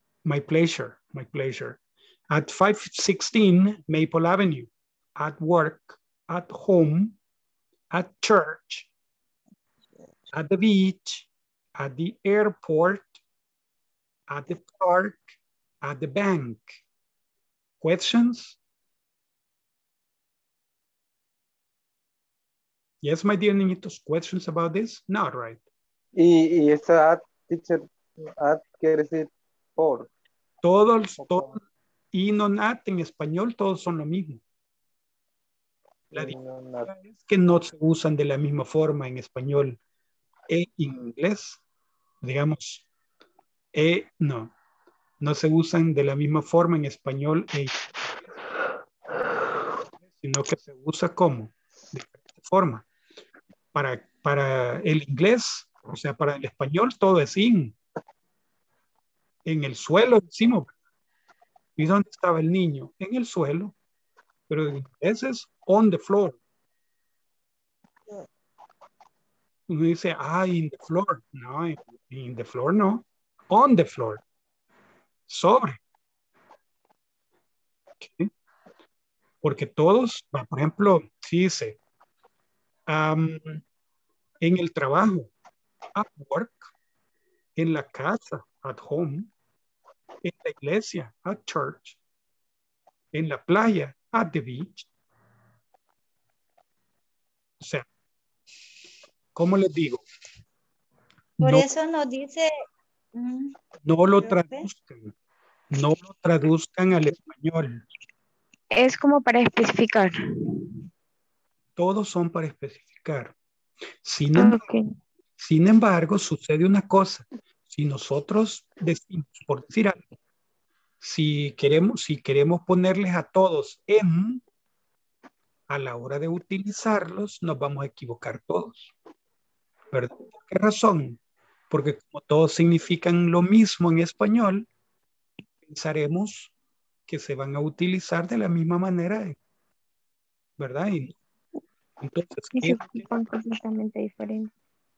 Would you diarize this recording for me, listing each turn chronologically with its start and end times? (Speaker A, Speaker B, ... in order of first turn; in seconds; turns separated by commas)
Speaker A: 0.2-7.2, Speaker A: 7.9-8.9, Speaker A: 10.3-13.2, Speaker A: 14.3-16.8, Speaker A: 17.8-18.6, Speaker A: 23.0-25.6, Speaker B: 26.1-30.1, Speaker A: 30.6-31.6, Speaker B: 31.2-31.5, Speaker A: 32.1-34.4, Speaker A: 36.1-39.8, Speaker B: 36.1-36.9, Speaker A: 40.5-41.6, Speaker A: 42.2-42.9, Speaker A: 43.7-44.5, Speaker A: 45.2-47.7, Speaker A: 50.0-52.9, Speaker A: 53.7-57.8, Speaker A: 59.4-60.7, Speaker A: 61.8-63.7, Speaker A: 64.5-66.4, Speaker A: 69.7-74.2, Speaker A: 75.3-75.8, Speaker A: 78.0-78.3, Speaker A: 79.4-81.8, Speaker A: 82.9-83.6, Speaker A: 84.4-85.3, Speaker A: 85.9-86.7, Speaker A: 87.5-89.3, Speaker A: 90.2-92.0, Speaker A: 93.1-94.9, Speaker A: 97.6-97.9, Speaker A: 99.3-100.0, Speaker A: 101.4-101.7, Speaker C: 101.4-102.6, Speaker C: 103.1-103.5, Speaker A: 103.8-105.1, Speaker C: 104.2-104.7, Speaker A: 105.7-107.8, Speaker D: 108.7-110.2, Speaker A: 111.8-113.3, Speaker A: 114.0-114.6, Speaker D: 114.4-114.8, Speaker A: 115.4-120.0, Speaker A: 121.0-124.4, Speaker A: 125.7-128.9, Speaker A: 129.9-134.7, Speaker A: 135.6-136.5, Speaker A: 137.1-139.4, Speaker A: 140.6-141.2, Speaker A: 142.0-143.1, Speaker D: 142.6-144.5